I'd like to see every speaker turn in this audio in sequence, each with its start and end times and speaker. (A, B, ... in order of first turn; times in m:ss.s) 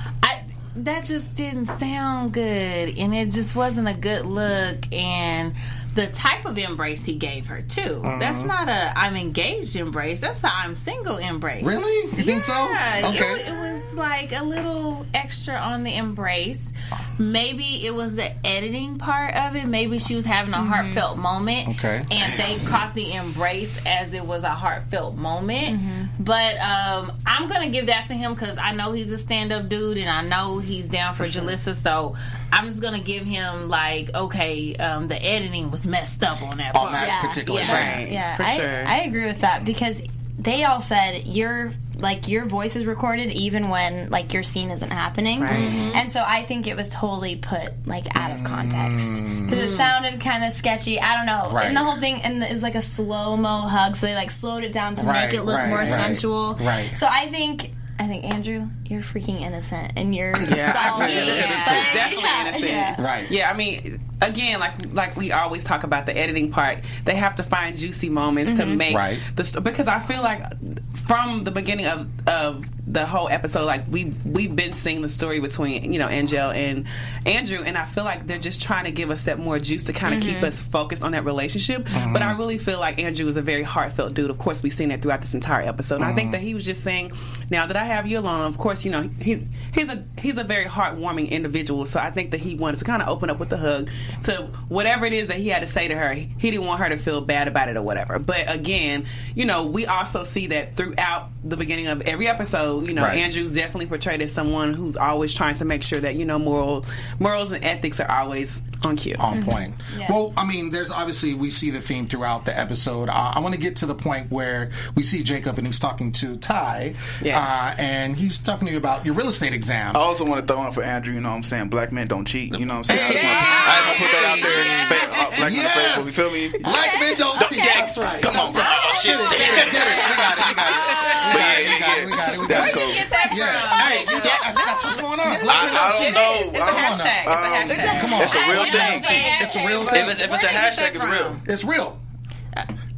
0:00.2-0:37.9 A
0:08.0-0:08.5 B
0:11.6-0:13.4 B
0:20.6-0:21.0 C
0:21.6-0:22.1 B
0:25.6-0:26.1 C
0:36.7-0:38.0 B
0:37.0-1:03.0 C
0:37.6-0:38.9 D
0:45.4-0:45.8 D
0:45.5-0:46.0 A
0:48.1-0:49.7 B
0:49.5-0:49.9 A
0:51.4-0:51.9 B
0:55.0-0:57.0 B
1:00.3-1:02.0 B
1:00.4-1:49.2 D
1:00.8-1:01.9 A
1:03.0-1:03.3 B
1:08.4-1:08.8 C
1:08.9-1:09.2 B
1:20.0-1:20.5 C
1:21.9-1:22.4 B
1:26.0-1:26.4 B
1:42.9-1:43.2 B
1:49.2-2:00.0 B
1:49.3-1:50.2 C
1:57.2-1:57.5 D
1:59.9-2:10.5 E
2:02.8-2:04.2 B
2:03.0-2:05.1 A
2:03.4-2:05.4 D
2:05.4-2:17.3 B
2:06.7-2:11.7 A
2:10.9-2:11.5 D
2:11.1-2:13.1 E
2:12.2-2:21.4 A
2:13.3-2:15.0 D
2:15.5-2:21.4 E
2:17.9-2:20.3 B
2:18.1-2:19.4 C
2:21.4-2:22.0 B